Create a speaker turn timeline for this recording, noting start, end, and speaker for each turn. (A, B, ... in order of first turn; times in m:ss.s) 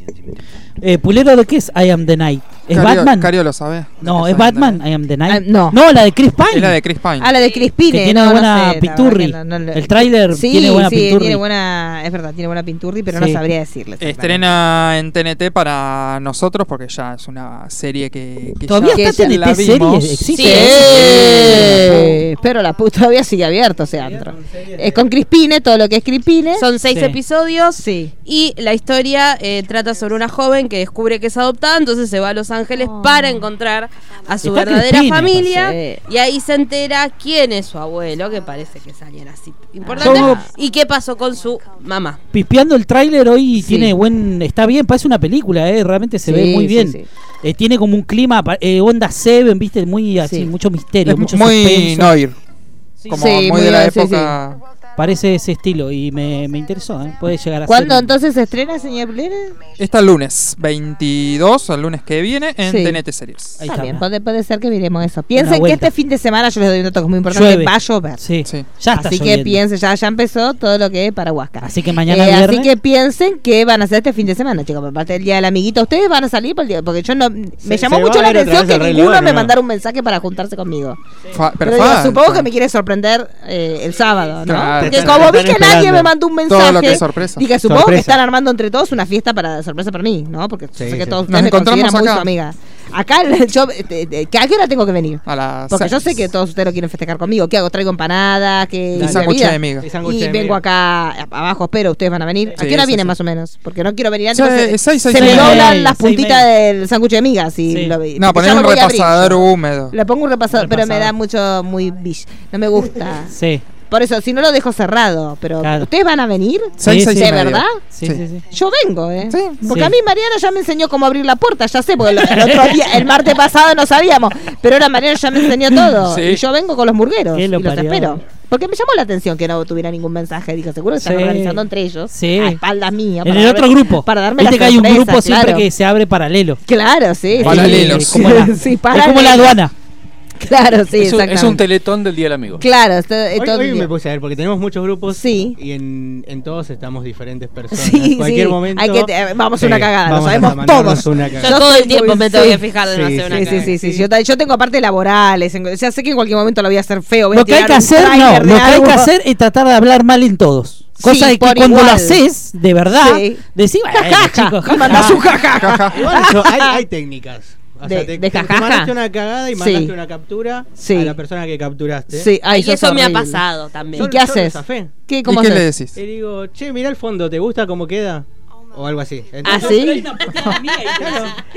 0:00.8-0:03.3 A
0:02.7-0:04.8 B
0:04.0-0:06.8 A
0:05.3-0:05.8 C
0:06.5-0:07.3 B
0:07.2-0:14.4 C
0:07.4-0:07.7 D
0:07.9-0:11.4 A
0:13.1-0:13.4 A
0:14.0-0:21.9 B
0:18.7-0:22.1 A
0:19.0-0:19.3 C
0:20.3-0:21.7 D
0:20.4-0:26.7 C
0:24.0-0:25.1 E
0:26.6-0:42.2 D
0:26.9-0:27.2 A
0:27.8-0:28.2 C
0:32.9-0:33.4 C
0:34.4-0:35.5 A
0:35.5-0:36.0 C
0:39.8-0:40.5 C
0:40.0-0:40.4 A
0:42.3-0:52.2 A
0:43.6-0:43.9 C
0:46.2-0:47.1 C
0:50.2-0:50.5 C
0:51.0-0:52.4 B
0:53.1-0:54.6 B
0:53.1-0:54.4 C
0:55.0-0:58.1 A
0:57.7-0:59.5 C
0:59.8-1:03.6 B
1:02.6-1:03.0 C
1:03.6-1:04.0 A
1:03.6-1:08.2 C
1:05.3-1:05.9 A
1:07.3-1:09.6 A
1:08.4-1:08.7 B
1:08.9-1:21.0 C
1:11.6-1:12.7 A
1:17.6-1:19.6 E
1:21.3-1:22.5 B
1:21.6-1:53.3 C
1:24.4-1:25.4 B
1:24.5-1:26.1 E
1:26.5-1:27.4 B
1:27.6-1:28.2 E
1:30.8-1:31.2 E
1:31.3-1:32.3 B
1:35.2-1:36.1 B
1:38.9-1:39.3 A
1:39.0-1:39.9 B
1:39.8-1:40.6 E
1:42.6-1:43.0 B
1:44.3-1:45.8 B
1:45.1-1:46.4 A
1:47.7-1:48.0 A
1:48.2-1:49.9 B
1:53.3-1:53.6 A
1:53.9-1:57.8 C
1:55.6-1:55.9 A
1:56.8-1:58.2 B
1:56.8-1:57.4 A
1:57.9-1:58.4 A
1:58.5-2:15.7 C
1:59.3-1:59.7 B
1:59.6-1:59.9 A
2:02.2-2:02.7 A
2:06.0-2:06.4 F
2:07.3-2:08.2 A
2:11.0-2:12.6 A
2:13.2-2:16.6 A
2:16.6-2:19.6 C
2:17.4-2:19.7 A
2:17.4-2:18.5 B
2:20.4-2:21.6 C
2:21.0-2:22.6 F
2:22.6-2:23.9 C
2:23.3-2:31.6 E
2:25.1-2:25.6 C
2:27.7-2:32.7 C
2:31.4-2:33.7 D
2:32.8-2:34.1 E
2:33.3-2:39.1 C
2:37.3-2:45.2 A
2:41.0-2:42.2 C
2:42.9-2:46.8 C
2:44.9-2:45.2 E
2:45.6-2:46.0 B
2:45.9-2:52.3 E
2:47.8-2:48.9 C
2:49.5-2:49.9 C
2:50.8-2:51.2 C
2:52.1-2:53.4 C
2:52.4-2:54.1 D
2:53.9-2:54.9 E
2:53.9-2:55.7 C
2:55.2-2:56.0 B
2:55.9-3:00.3 E
2:59.4-3:00.2 C
2:59.6-3:01.1 A
3:00.8-3:01.4 E